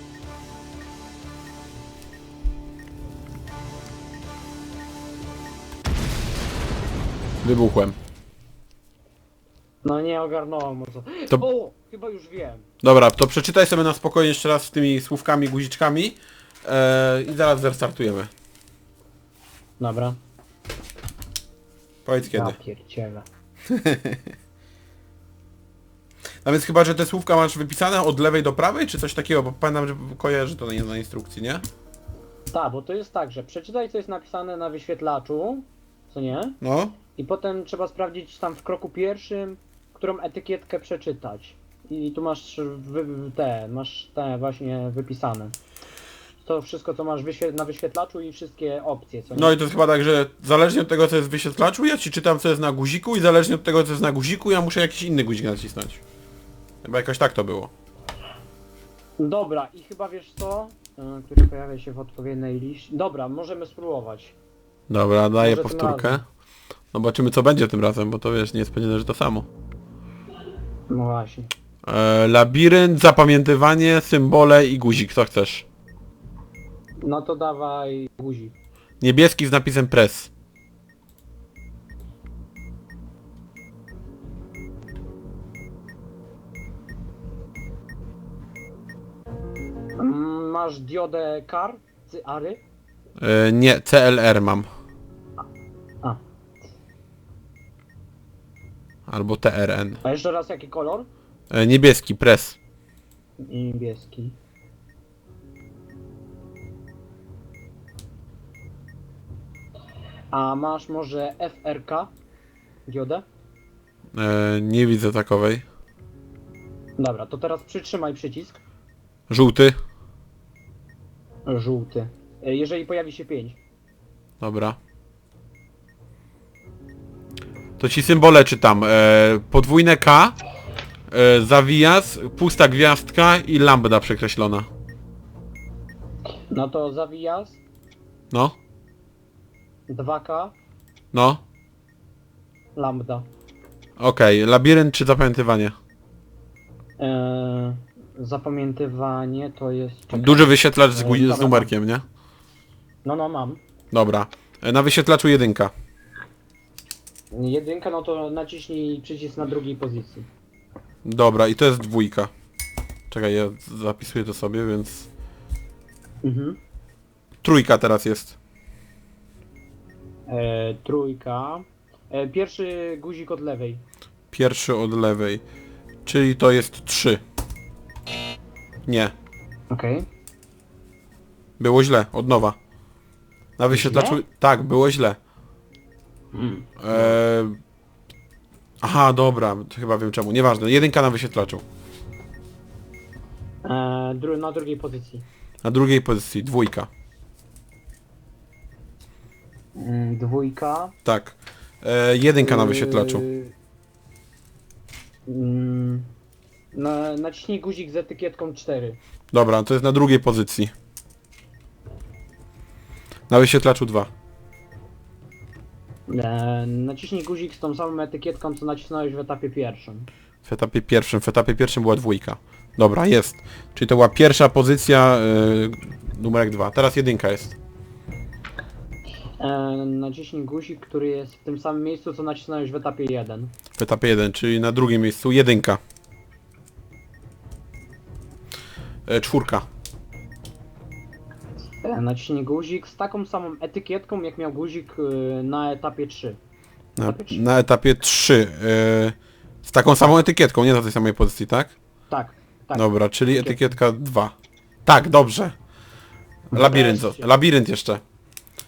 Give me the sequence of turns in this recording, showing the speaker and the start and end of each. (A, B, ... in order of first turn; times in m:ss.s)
0:07.4-0:08.0 A
0:09.8-0:12.6 B
0:12.8-0:18.3 A
0:19.8-0:20.2 B
0:22.0-0:22.6 A
0:22.3-0:23.2 B
0:23.7-0:24.3 A
0:26.4-0:31.6 A
0:32.5-0:36.6 B
0:36.6-0:37.0 A
0:37.2-0:45.5 B
0:46.4-0:49.6 B
0:49.3-0:56.0 A
0:56.8-0:57.7 A
0:59.2-1:04.3 B
1:04.9-1:06.2 A
1:05.4-1:06.2 B
1:06.9-1:09.5 A
1:10.9-1:11.5 B
1:11.8-1:15.6 A
1:17.0-1:18.5 B
1:19.0-1:20.3 A
1:30.0-1:32.6 B
1:33.2-1:34.7 A
1:39.1-1:40.0 A
1:40.0-1:41.1 B
1:41.5-1:42.6 A
1:43.4-1:44.3 B
1:50.3-1:52.1 B
1:52.9-1:53.2 B
1:54.1-1:55.6 A
1:57.0-1:58.6 B
1:59.3-1:59.7 A
2:01.5-2:03.6 B
2:04.4-2:04.8 A
2:07.8-2:10.4 A
2:11.1-2:14.7 A
2:16.5-2:17.6 B
2:18.3-2:18.6 A
2:19.9-2:20.5 B
2:21.1-2:21.4 A
2:22.8-2:23.2 B
2:24.0-2:25.8 A
2:27.0-2:31.7 B
2:30.1-2:32.0 A
2:33.0-2:33.6 B
2:33.9-2:35.7 A
2:37.3-2:40.3 B
2:41.0-2:42.3 A
2:43.1-2:45.1 A
2:46.2-2:46.6 B
2:47.4-2:48.4 A
2:50.3-2:53.8 B
2:54.3-2:55.4 A
2:56.0-2:57.2 A
2:58.8-2:59.1 A
2:59.7-3:00.0 B
3:01.6-3:02.6 A
3:03.6-3:05.2 A
3:03.7-3:04.2 B
3:06.3-3:07.1 B
3:06.8-3:07.6 A
3:08.8-3:11.6 A
3:13.6-3:15.2 B
3:15.6-3:16.9 A
3:19.7-3:20.9 B
3:21.0-3:23.2 A
3:22.4-3:23.5 B
3:25.3-3:26.1 B
3:26.7-3:29.0 B
3:29.3-3:30.7 A
3:33.3-3:34.1 A
3:36.1-3:40.1 B
3:40.4-3:47.6 A
3:49.4-3:53.5 B
3:53.8-3:55.8 A
3:59.1-3:59.6 A
4:01.8-4:06.4 B
4:07.0-4:11.7 A
4:07.0-4:07.4 B
4:12.1-4:13.7 B
4:12.7-4:14.3 A
4:14.8-4:15.5 A
4:16.5-4:17.3 B
4:16.5-4:18.0 A